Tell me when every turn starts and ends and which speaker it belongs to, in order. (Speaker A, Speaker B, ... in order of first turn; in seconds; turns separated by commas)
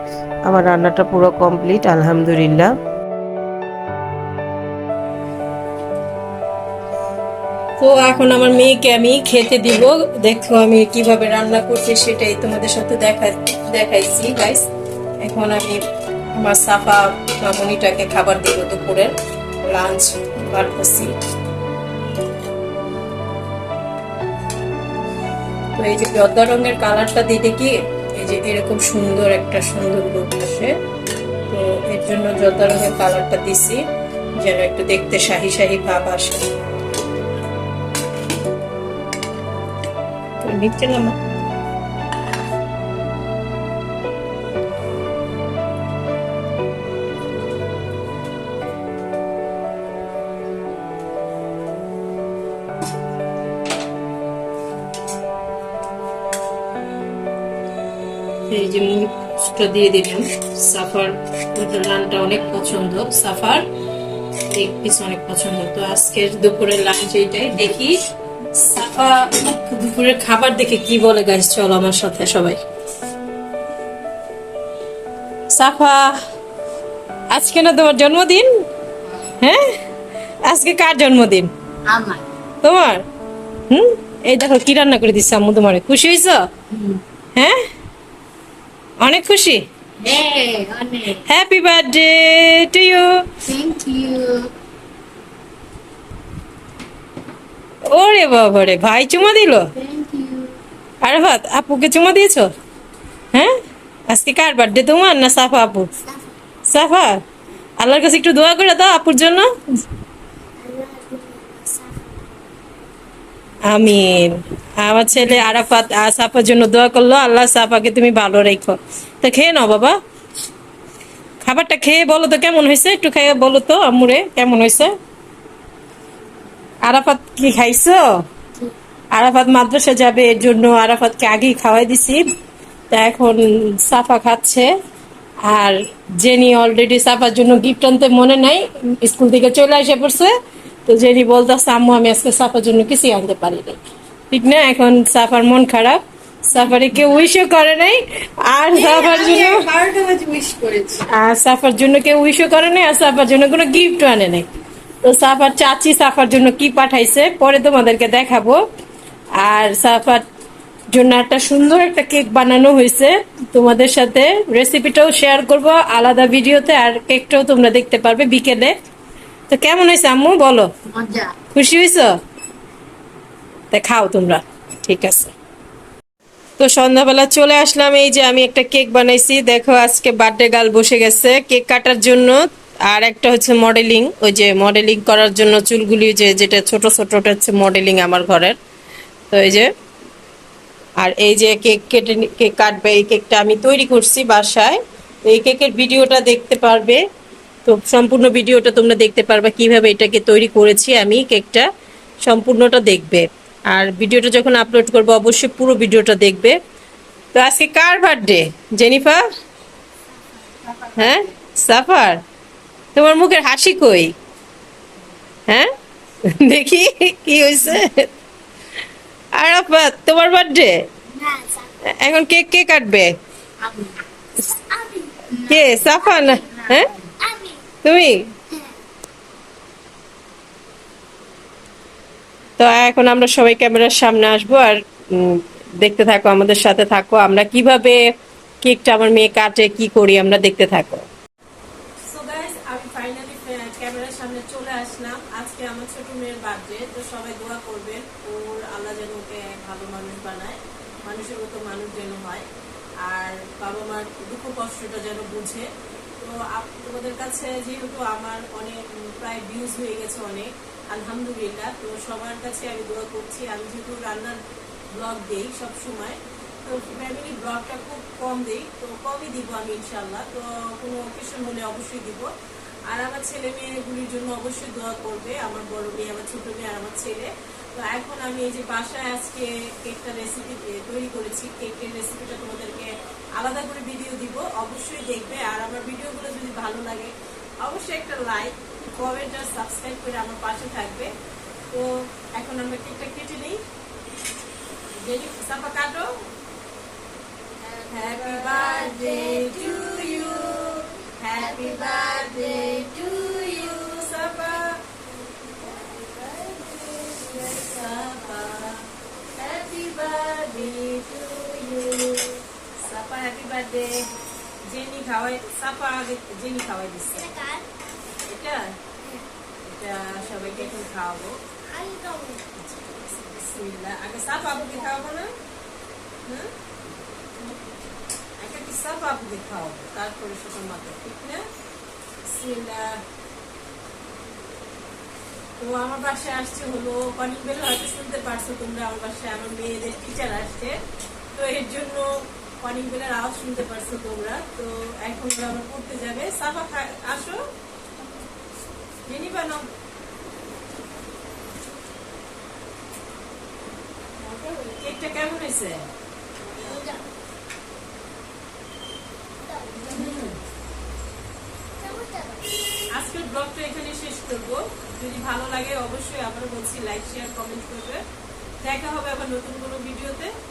Speaker A: 0.5-2.7, Speaker B: 7.8-14.7, Speaker B: 15.2-15.8, Speaker B: 16.3-21.1, Speaker B: 25.8-30.7, Speaker B: 31.5-33.8, Speaker B: 34.4-36.5, Speaker B: 40.4-41.1, Speaker B: 58.5-63.6, Speaker B: 64.5-68.0, Speaker B: 68.5-72.6, Speaker B: 75.5-76.2, Speaker B: 77.3-78.6, Speaker B: 79.2-79.8, Speaker B: 80.4-81.5, Speaker C: 81.9-82.2, Speaker B: 82.6-83.0, Speaker B: 83.7-86.5, Speaker C: 86.7-87.0, Speaker B: 89.0-89.6, Speaker C: 90.0-91.2, Speaker B: 91.1-93.2, Speaker C: 93.5-94.5, Speaker B: 97.9-99.7, Speaker C: 99.7-100.6, Speaker B: 101.0-102.5, Speaker B: 104.1-105.9, Speaker B: 106.7-107.2, Speaker B: 107.8-109.5, Speaker C: 110.6-112.5, Speaker B: 113.6-120.0, Speaker B: 121.4-124.9, Speaker B: 126.8-128.0, Speaker B: 129.1-132.2, Speaker B: 132.9-134.7, Speaker B: 135.4-140.3, Speaker B: 140.8-143.8, Speaker B: 144.3-149.7, Speaker C: 148.7-151.0, Speaker B: 151.1-154.4, Speaker B: 155.0-158.6, Speaker B: 159.4-160.2, Speaker B: 160.9-168.7, Speaker B: 169.5-170.7, Speaker C: 170.9-171.3, Speaker B: 171.5-172.2, Speaker B: 173.7-175.3, Speaker B: 176.6-188.6, Speaker B: 189.3-189.7, Speaker B: 191.0-197.0, Speaker B: 197.6-201.7, Speaker B: 202.2-206.6, Speaker B: 207.3-209.2, Speaker C: 210.7-211.0, Speaker B: 210.9-212.2, Speaker B: 212.9-214.1, Speaker B: 216.2-218.1, Speaker B: 219.3-220.9, Speaker C: 221.1-221.7, Speaker B: 221.8-223.1, Speaker C: 223.6-227.6, Speaker B: 225.4-226.9, Speaker B: 227.8-228.3, Speaker B: 232.6-238.0, Speaker B: 238.6-241.1, Speaker B: 242.1-252.5, Speaker B: 253.0-255.7, Speaker B: 256.2-264.4, Speaker B: 264.9-272.3, Speaker B: 272.9-291.1, Speaker B: 291.7-293.6, Speaker B: 294.9-296.1, Speaker B: 297.8-304.8, Speaker B: 305.5-308.9, Speaker B: 309.4-314.1, Speaker B: 314.7-317.6, Speaker B: 318.2-318.8, Speaker B: 319.6-325.3, Speaker B: 326.2-326.5, Speaker B: 328.4-331.4, Speaker B: 332.2-333.0, Speaker B: 335.6-340.8, Speaker B: 341.3-347.4, Speaker B: 349.1-349.7, Speaker B: 354.5-355.9, Speaker C: 356.6-357.0, Speaker C: 359.4-360.1, Speaker B: 359.8-360.4, Speaker C: 361.8-362.5, Speaker B: 362.9-368.0, Speaker B: 368.6-370.3